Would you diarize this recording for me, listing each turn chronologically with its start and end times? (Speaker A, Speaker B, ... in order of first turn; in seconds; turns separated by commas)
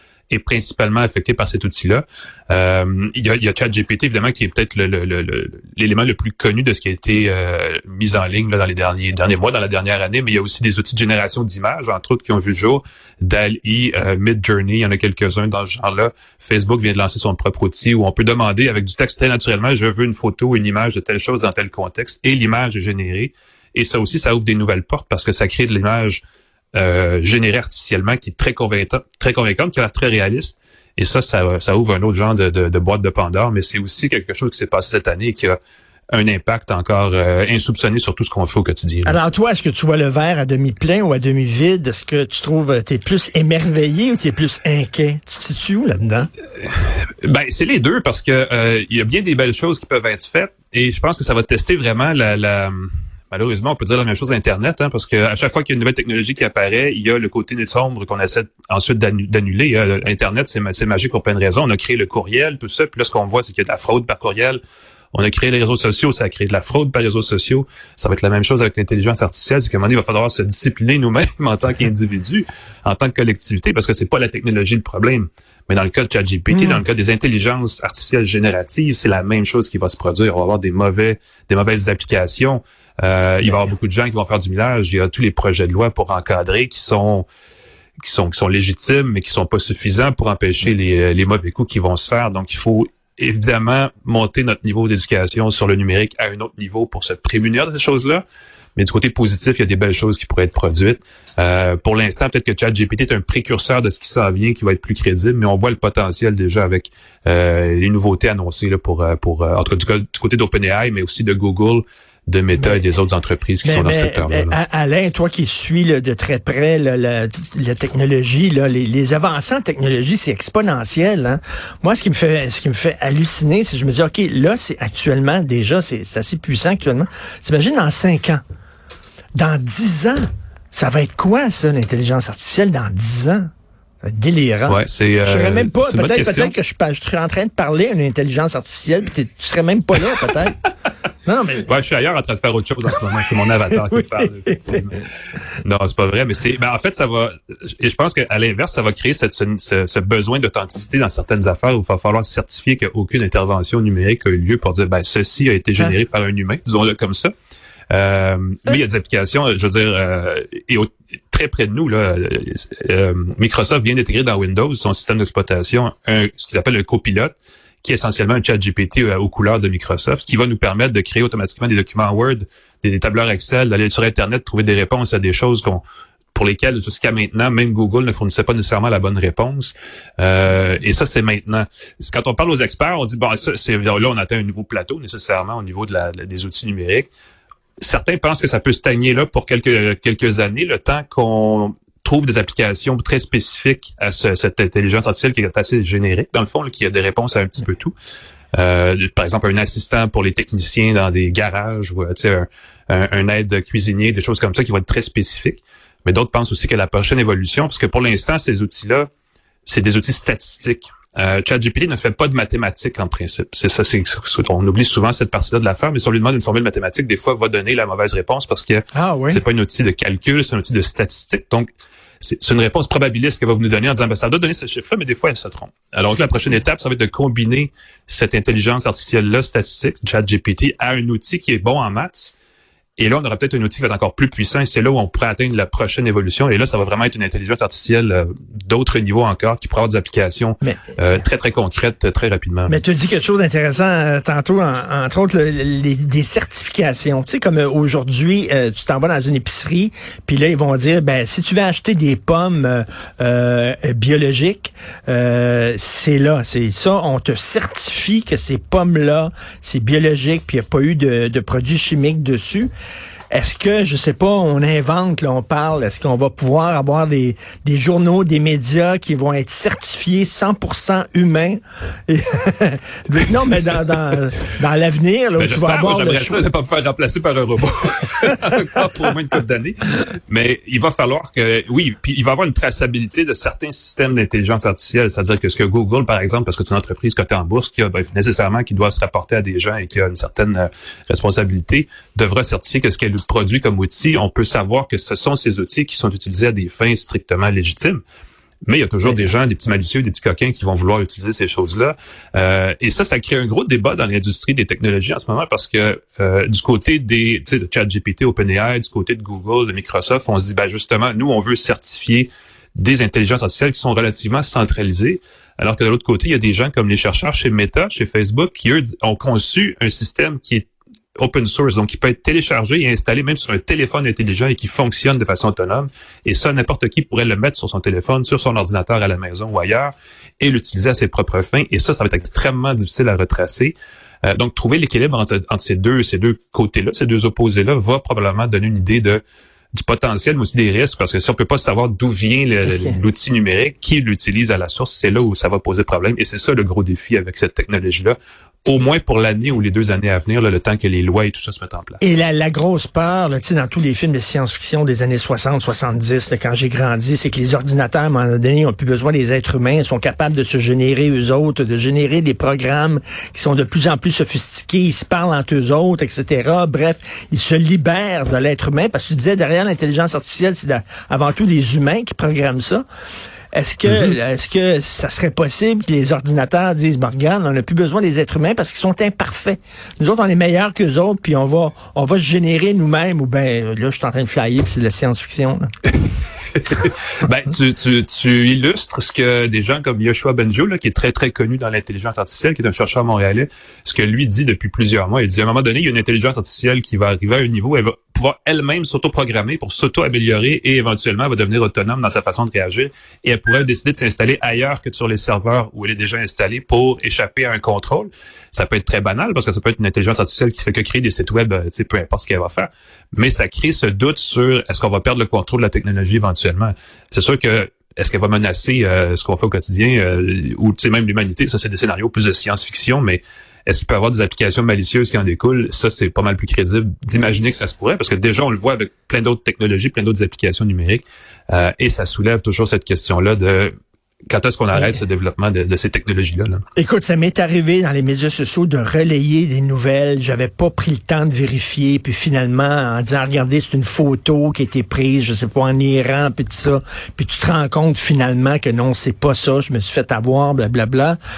Speaker A: 0.3-26.2, Speaker A: 26.7-35.6, Speaker A: 36.1-39.2, Speaker B: 39.0-46.3, Speaker A: 46.6-64.6, Speaker A: 65.1-87.3, Speaker B: 76.5-76.8, Speaker A: 88.0-98.2, Speaker A: 98.8-114.6, Speaker B: 113.6-128.4, Speaker B: 129.3-133.5, Speaker B: 134.0-140.6, Speaker A: 134.7-136.5, Speaker B: 141.2-141.7, Speaker A: 141.6-145.0, Speaker B: 143.9-144.8, Speaker A: 145.6-157.3, Speaker A: 157.9-187.1, Speaker A: 187.8-197.9, Speaker A: 198.5-209.1, Speaker A: 209.7-221.7, Speaker B: 218.9-219.4, Speaker A: 222.2-232.3, Speaker A: 233.0-242.8, Speaker B: 240.6-240.9, Speaker B: 242.7-262.7, Speaker B: 263.3-276.4, Speaker A: 275.4-298.0, Speaker A: 298.6-320.7, Speaker A: 321.2-339.2, Speaker A: 339.7-352.0, Speaker B: 342.7-342.9, Speaker B: 352.0-372.8, Speaker B: 373.5-385.7, Speaker A: 373.9-374.1, Speaker A: 386.5-433.7, Speaker A: 434.3-436.6, Speaker B: 434.7-435.0, Speaker B: 436.8-451.2